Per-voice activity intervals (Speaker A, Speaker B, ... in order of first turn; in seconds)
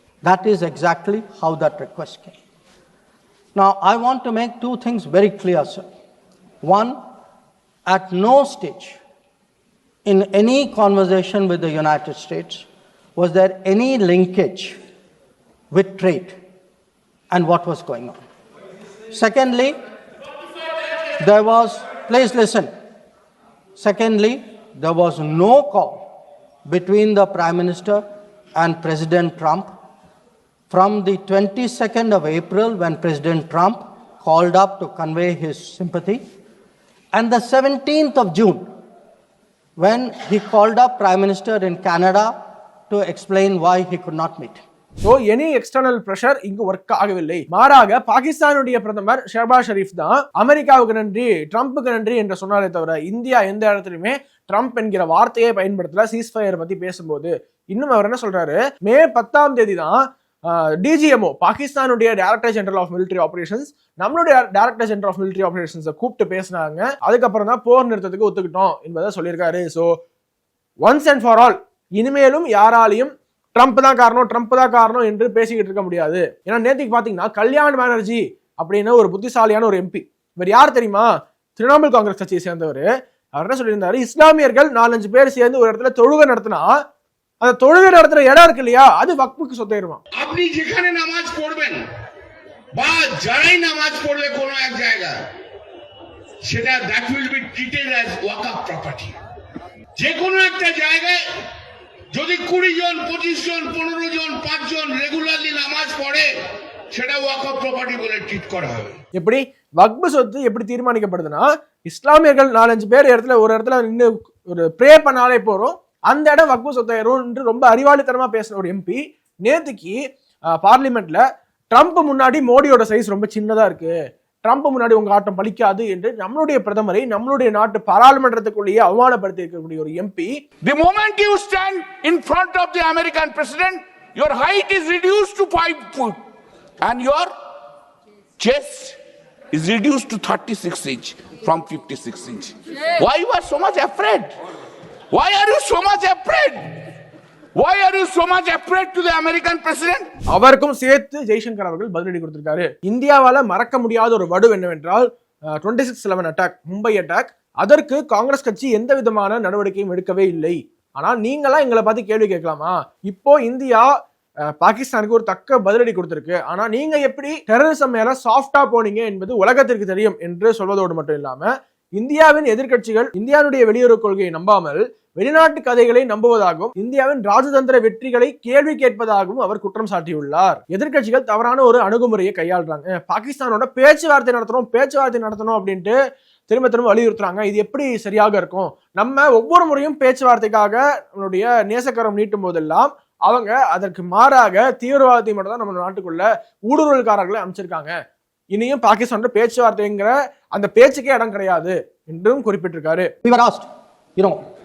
Speaker A: 0.2-2.4, 3.5-5.8, 6.6-7.0, 7.9-9.0, 10.0-14.8, 15.7-16.4, 17.3-18.2, 19.1-19.7, 21.2-22.7, 23.8-26.1, 26.6-28.0, 28.6-29.7, 30.7-36.2, 37.1-38.6, 39.8-42.3, 42.9-44.6, 203.2-204.4
Speaker B: 45.0-60.0, 60.8-69.9, 70.8-86.7, 87.4-90.0, 109.2-120.0, 120.6-121.2, 121.7-123.9, 124.4-130.3, 150.3-155.1, 155.6-163.9, 164.6-185.9, 186.5-197.9, 198.5-203.1
Speaker C: 90.2-91.8, 92.8-95.1, 96.5-99.1, 100.0-101.2, 102.2-106.3, 107.0-108.9
Speaker D: 90.5-90.9, 97.3-97.9, 130.6-136.2, 136.8-137.3, 138.4-139.0, 139.5-144.3, 145.1-146.7, 147.6-150.1